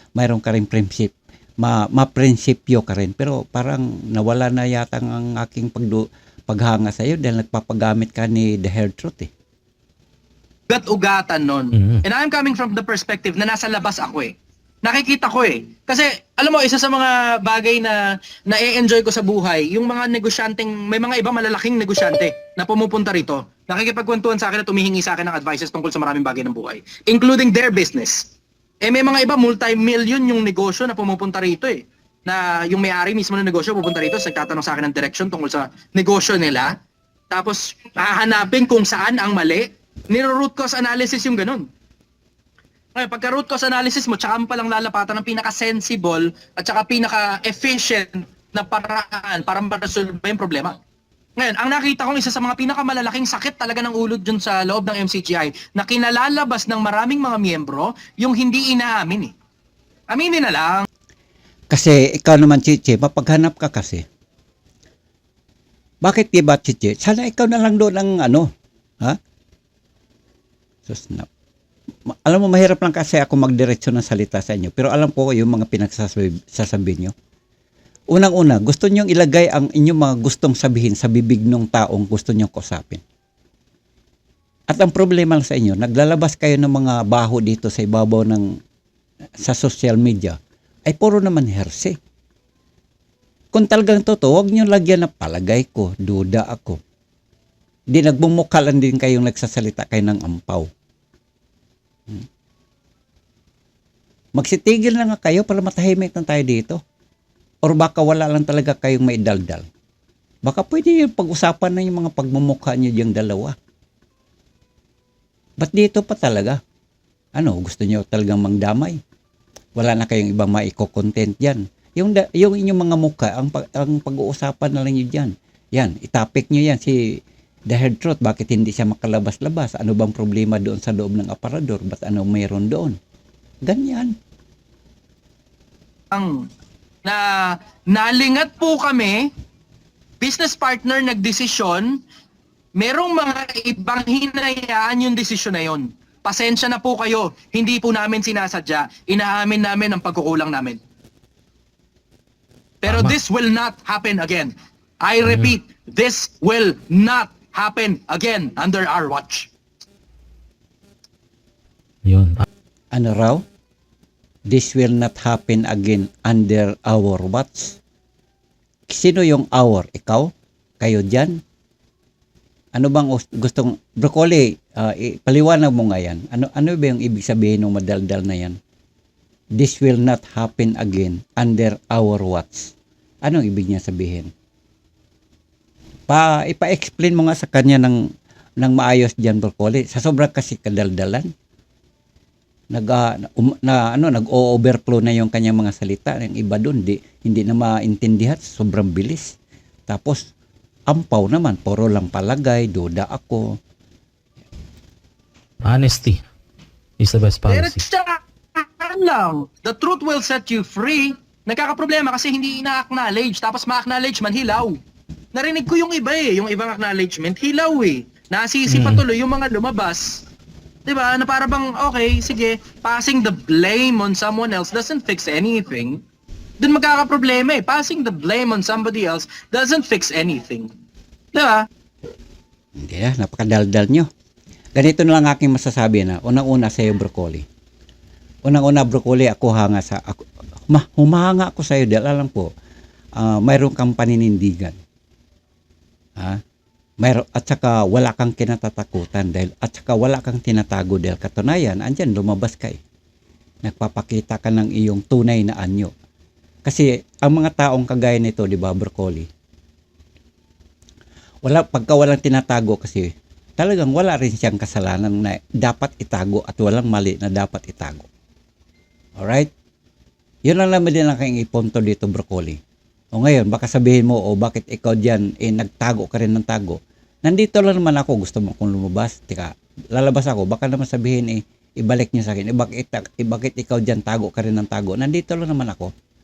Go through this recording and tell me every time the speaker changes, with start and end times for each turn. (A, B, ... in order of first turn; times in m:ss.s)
0:00.2-0:09.3 A
0:10.7-0:14.3 B
0:11.7-0:12.0 C
0:14.8-0:28.2 B
0:28.8-0:36.7 B
0:37.3-0:41.6 B
0:42.9-0:50.8 B
0:51.4-0:59.3 B
1:00.1-1:00.8 B
1:01.7-1:04.0 A
1:06.0-1:08.5 A
1:10.9-1:11.3 A
1:12.1-1:17.1 A
1:18.1-1:23.0 A
1:24.7-1:28.5 A
1:29.4-1:32.0 A
1:33.5-1:36.8 A
1:37.9-1:40.7 A
1:44.4-1:46.8 A
1:47.6-1:49.6 A
1:50.4-1:53.6 A
1:55.6-1:56.6 A
1:57.3-1:59.0 A
1:59.8-2:13.0 A
2:13.6-2:14.1 A
2:16.1-2:16.5 B
2:17.0-2:19.3 B
2:20.2-2:22.0 B
2:22.8-2:30.8 B
2:32.8-2:39.5 B
2:32.9-2:33.2 C
2:35.2-2:35.6 C
2:42.0-2:42.4 C
2:42.9-2:43.4 A
2:44.5-2:47.8 A
2:48.9-2:51.4 A
2:52.7-2:58.6 A
2:59.6-3:04.3 A
3:06.1-3:08.0 A
3:08.6-3:11.3 A
3:12.7-3:19.4 A
3:19.9-3:20.2 A
3:20.9-3:23.5 A
3:25.6-3:26.2 C
3:27.0-3:27.8 C
3:27.5-3:34.8 B
3:35.3-3:40.2 B
3:38.7-3:39.0 C
3:40.8-3:46.0 B
3:46.6-3:50.7 B
3:51.3-3:51.6 B
3:52.8-3:54.1 A
3:54.8-3:57.4 A
3:58.4-4:02.5 A
4:03.2-4:04.8 A
4:07.0-4:12.8 A
4:13.6-4:15.9 A
4:16.6-4:19.3 A
4:21.4-4:28.1 A
4:29.2-4:29.5 A
4:30.4-4:32.6 A
4:33.1-4:45.9 A